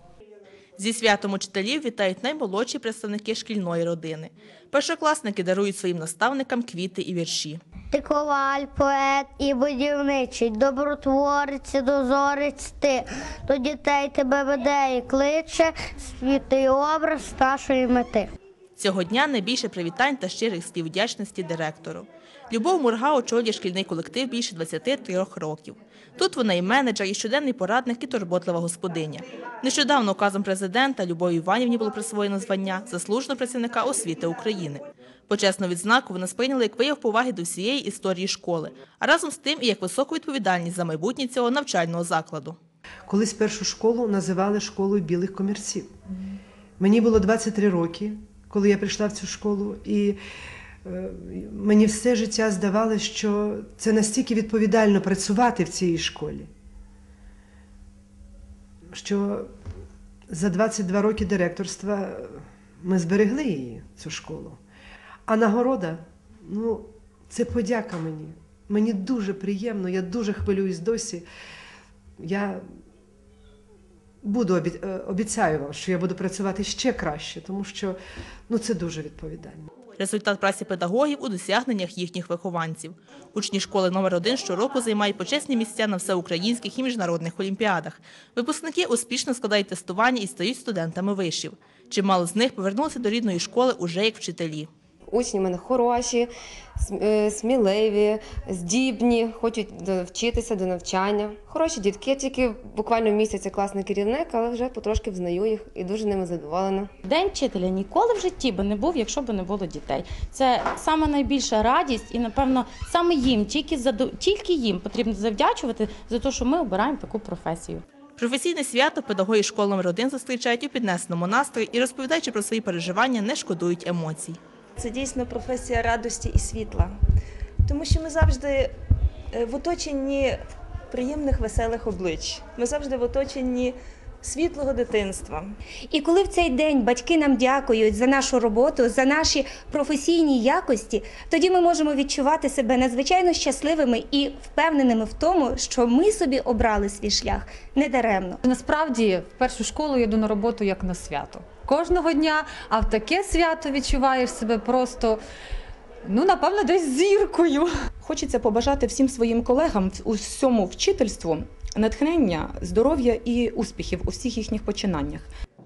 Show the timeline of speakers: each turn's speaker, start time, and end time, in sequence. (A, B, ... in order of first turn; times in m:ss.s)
0:00.8-0:07.6 A
0:07.9-0:18.3 B
0:18.8-0:42.6 A
0:43.1-0:45.9 C
0:46.8-0:50.2 C
0:50.8-0:56.5 C
0:58.9-0:59.5 C
1:00.3-1:04.6 C
1:05.3-1:11.3 C
1:12.2-1:12.6 C
1:14.2-1:18.0 C
1:18.5-1:19.6 C
1:20.0-1:34.7 A
1:35.1-1:46.9 D
1:47.1-1:57.8 E
1:58.2-2:04.4 A
2:04.8-2:07.0 F
2:07.6-2:08.7 F
2:09.3-2:15.5 F
2:15.9-2:28.4 G
2:28.5-2:35.2 H
2:36.0-2:37.7 H
2:38.0-2:45.3 I